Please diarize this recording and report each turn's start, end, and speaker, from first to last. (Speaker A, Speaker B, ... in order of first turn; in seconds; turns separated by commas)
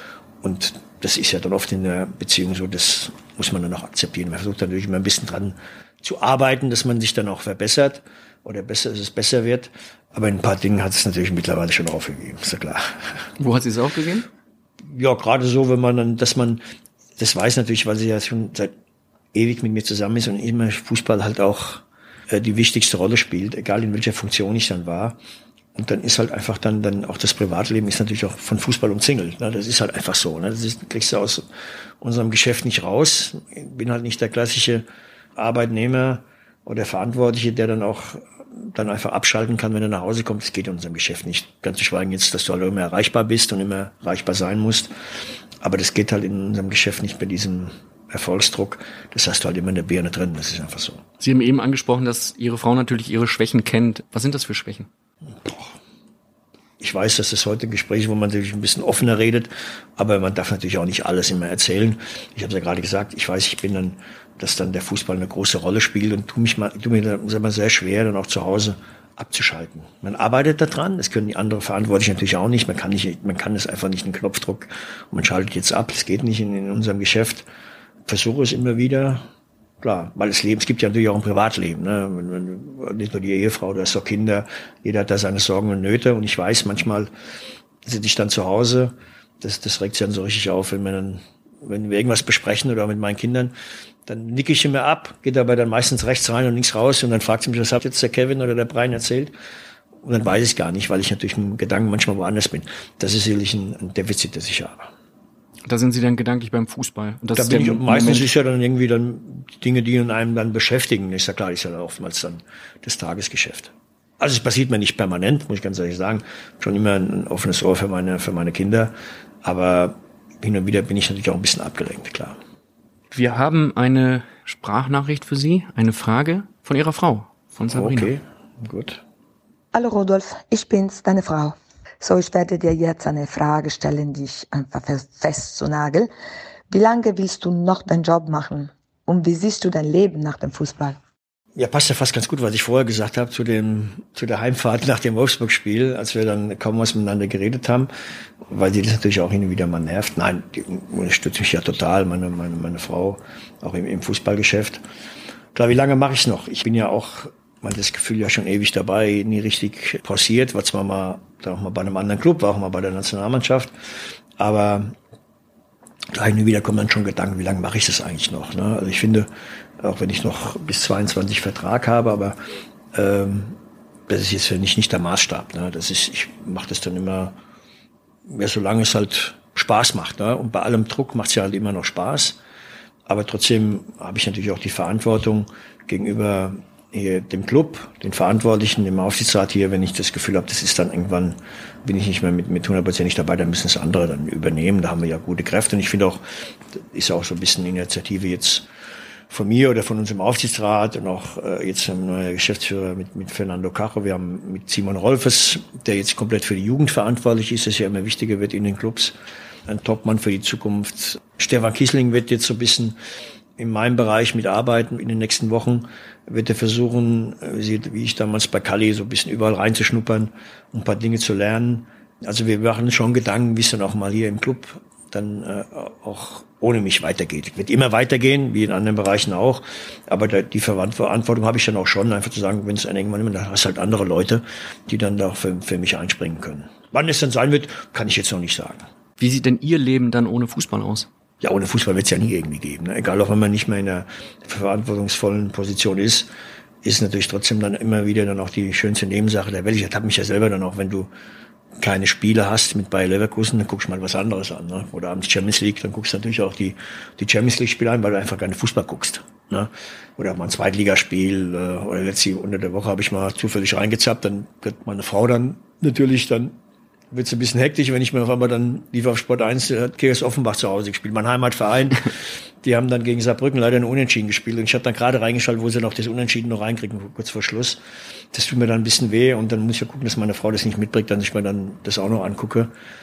Speaker A: 0.4-13.2, Speaker B: 13.4-14.3, Speaker A: 14.9-16.6, Speaker A: 17.2-18.7, Speaker A: 19.3-25.2, Speaker A: 25.7-31.4, Speaker A: 32.0-34.8, Speaker A: 35.4-44.9, Speaker A: 45.6-51.0, Speaker B: 51.2-54.9, Speaker A: 55.4-55.8, Speaker A: 56.8-77.5, Speaker A: 78.0-79.3, Speaker A: 79.8-87.1, Speaker A: 87.8-93.5, Speaker A: 94.0-99.3, Speaker A: 100.0-104.9, Speaker B: 105.7-108.3, Speaker A: 107.3-122.4, Speaker B: 123.1-128.1, Speaker A: 127.7-129.0, Speaker C: 129.7-136.1, Speaker C: 136.7-141.0, Speaker A: 141.6-147.9, Speaker A: 148.5-154.8, Speaker A: 155.5-163.7, Speaker A: 164.4-164.9, Speaker A: 166.1-169.3, Speaker A: 169.8-172.4, Speaker A: 172.9-173.6, Speaker A: 174.1-177.4, Speaker A: 178.3-182.4, Speaker A: 183.1-196.2, Speaker A: 196.7-198.7, Speaker A: 199.3-209.1, Speaker A: 209.7-212.9, Speaker A: 213.6-238.8, Speaker B: 239.2-241.1, Speaker A: 241.4-246.3, Speaker A: 246.8-251.1, Speaker A: 251.8-266.6, Speaker A: 267.1-277.8, Speaker A: 278.3-282.7